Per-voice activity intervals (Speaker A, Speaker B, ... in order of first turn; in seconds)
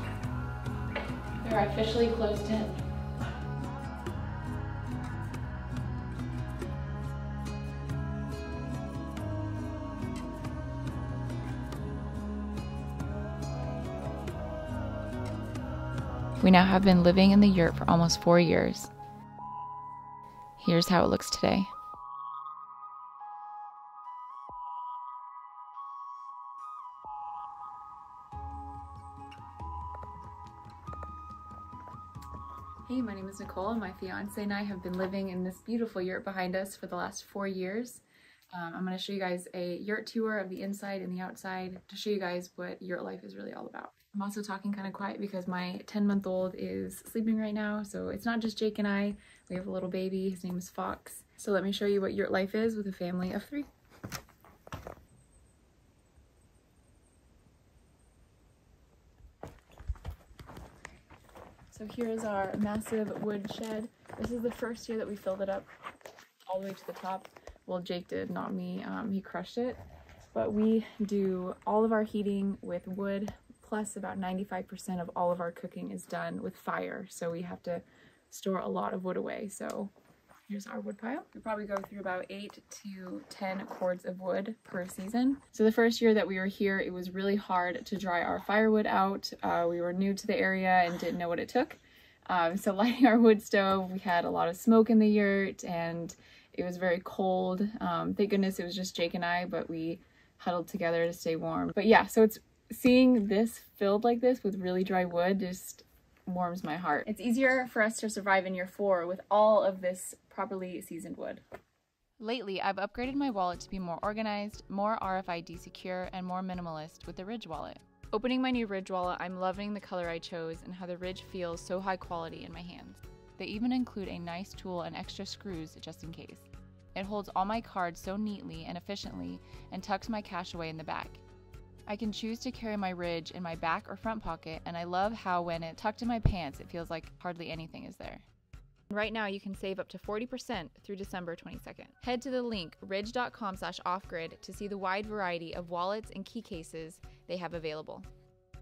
Speaker A: 1.4-2.8, 16.4-18.9, 20.6-21.7, 32.9-53.7, 61.7-65.7, 66.5-69.8, 70.3-79.9, 80.5-111.4, 112.2-131.2, 131.9-138.2, 138.9-148.1